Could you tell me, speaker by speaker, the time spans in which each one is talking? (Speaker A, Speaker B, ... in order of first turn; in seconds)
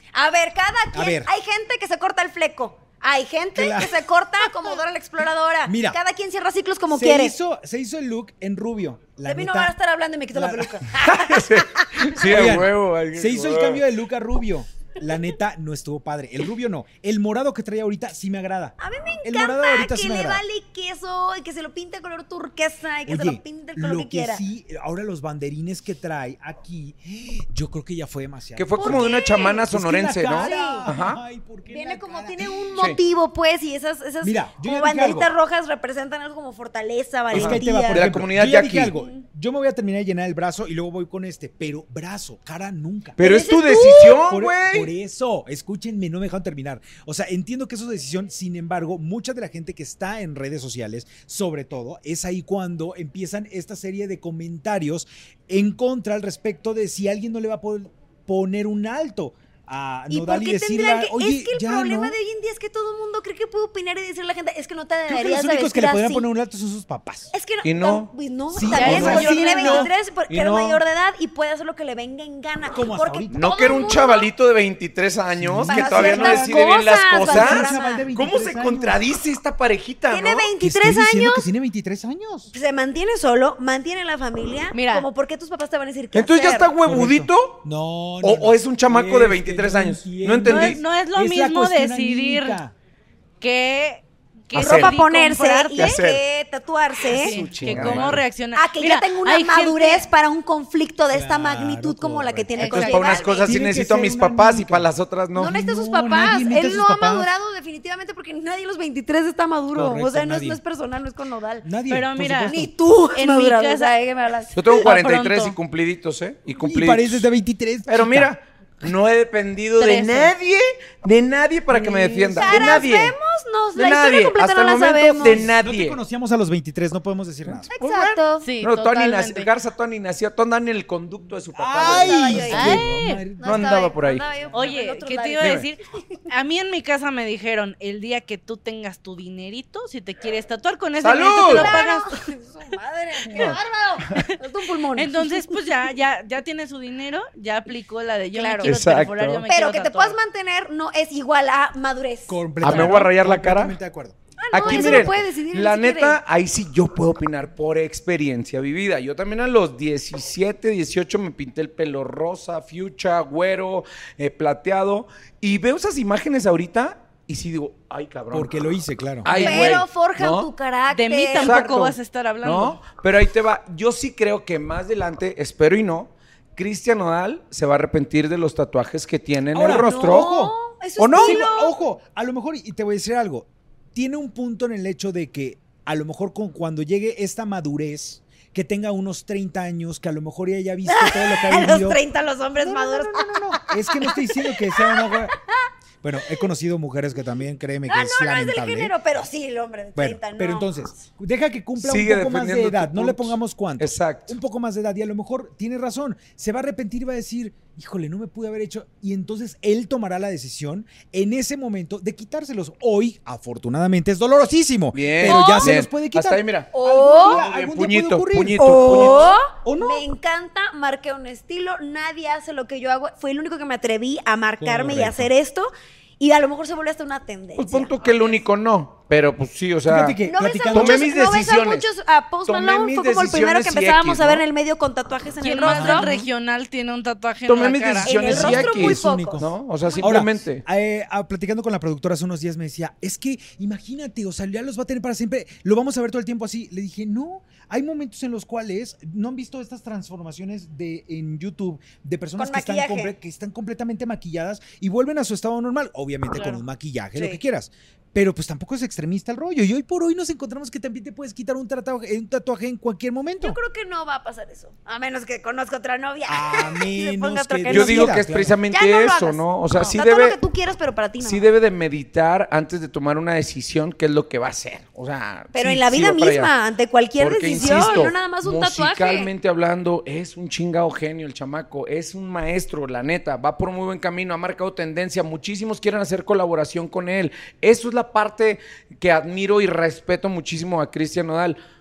Speaker A: 0.1-7.3, 9.2-12.5, 18.8-24.4, 28.8-29.7, 30.3-30.9, 31.7-38.1, 38.9-39.2, 43.2-44.2, 60.1-66.3, 67.3-74.3, 75.7-78.1, 80.1-81.5, 82.5-86.7, 94.5-97.4, 98.5-103.5, 105.4-111.7, 112.5-114.8, 122.3-125.5, 127.7-128.5, 131.8-132.9, 133.4-135.7, 141.4-145.7, 148.3-148.8, 149.5-152.9, 154.4-156.2, 169.3-171.8, 179.6-181.8, 190.9-195.6, 197.9-200.7, 215.2-215.8, 216.7-217.4, 218.6-227.9, 230.3-236.2, 238.0-240.1, 252.4-253.2, 263.4-268.2, 268.7-271.5, 275.5-279.3
Speaker B: 0.9-1.3, 3.5-4.0, 5.7-6.0, 6.9-9.7, 10.3-10.8, 12.2-20.4, 23.1-32.7, 34.2-35.3, 37.3-62.2, 65.1-67.3, 68.5-70.8, 72.7-73.5, 75.4-79.0, 80.6-82.5, 86.8-92.7, 97.6-98.2, 101.1-102.8, 103.4-107.3, 109.7-110.6, 111.6-112.7, 116.6-118.3, 121.7-122.8, 125.2-127.7, 131.5-133.8, 152.3-155.2, 168.3-169.3, 179.5-180.6, 181.1-192.0, 192.6-195.3, 196.0-198.9, 200.0-220.1, 224.6-225.3, 229.9-231.1, 235.6-236.1, 238.1-263.6, 266.3-268.6, 277.5-278.1
Speaker C: 11.0-13.8, 28.6-31.2, 37.3-39.0, 43.2-44.9, 67.6-68.1, 68.8-69.3, 73.3-80.5, 86.1-87.6, 88.2-90.8, 94.5-95.0, 95.8-96.2, 97.1-98.2, 102.6-105.5, 114.5-117.3, 117.9-123.2, 123.8-126.0, 127.5-134.2, 135.4-135.7, 141.0-141.8, 143.3-144.3, 148.6-149.4, 152.6-153.8, 154.5-168.7, 169.2-170.5, 171.3-180.3, 181.0-181.4, 201.8-204.4, 214.9-219.4, 227.6-230.2, 230.7-231.9, 232.5-234.4, 237.5-240.6, 267.7-270.4, 271.2-276.5, 277.2-291.6
Speaker D: 68.7-69.9, 84.7-85.1, 90.4-92.6, 93.4-96.0, 97.1-100.1, 102.6-103.3, 111.9-112.6, 113.2-113.9, 114.6-115.6, 119.8-120.3, 128.4-129.5, 132.5-133.2, 134.5-142.2, 144.9-150.2, 169.3-169.8, 170.9-172.8, 235.4-238.2, 256.4-256.6